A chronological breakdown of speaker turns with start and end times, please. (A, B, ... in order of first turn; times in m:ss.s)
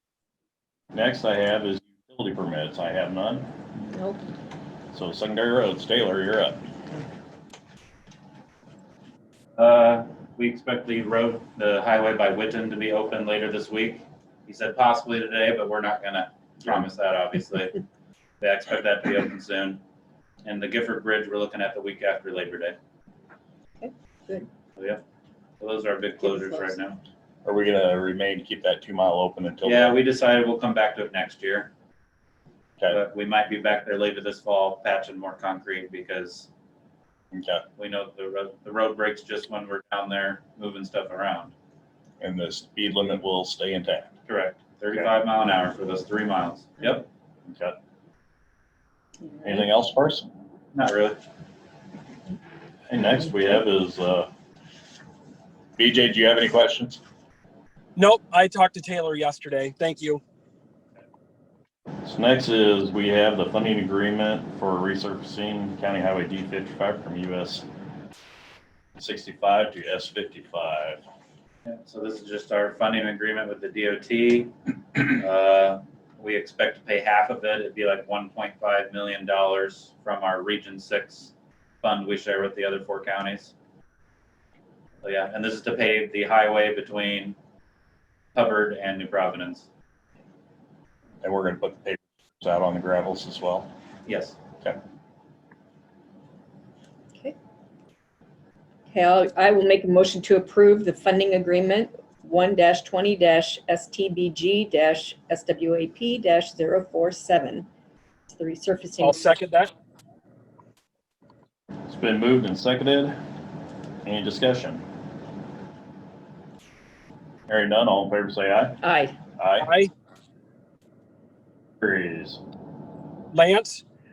0:00.9-0:03.5 A
0:03.9-0:04.2 B
0:04.9-0:06.6 A
0:09.6-0:17.8 C
0:18.4-0:19.8 C
0:20.4-0:22.8 C
0:23.8-0:24.5 B
0:25.6-0:27.0 C
0:26.2-0:26.8 B
0:27.4-0:30.0 A
0:29.6-0:31.7 C
0:32.9-0:36.5 C
0:37.3-0:37.6 A
0:37.8-0:41.5 C
0:42.2-0:44.1 A
0:44.3-0:47.1 C
0:47.5-0:47.8 A
0:49.4-0:50.3 A
0:50.7-0:51.2 C
0:52.9-0:54.3 A
0:55.8-0:57.0 A
0:58.0-1:00.2 D
1:02.0-1:07.6 A
1:09.0-1:11.0 A
1:11.7-1:21.3 C
1:21.8-1:23.5 C
1:25.0-1:27.4 C
1:28.4-1:29.7 C
1:31.2-1:33.7 A
1:34.1-1:34.4 C
1:38.9-1:47.7 B
1:48.3-1:49.3 B
1:49.0-1:49.7 D
1:51.9-1:53.2 A
1:54.0-1:54.8 A
1:57.5-1:58.8 A
1:58.8-1:59.2 B
1:59.4-1:59.7 A
1:59.6-1:59.9 D
2:01.8-2:02.4 A
2:03.3-2:03.8 D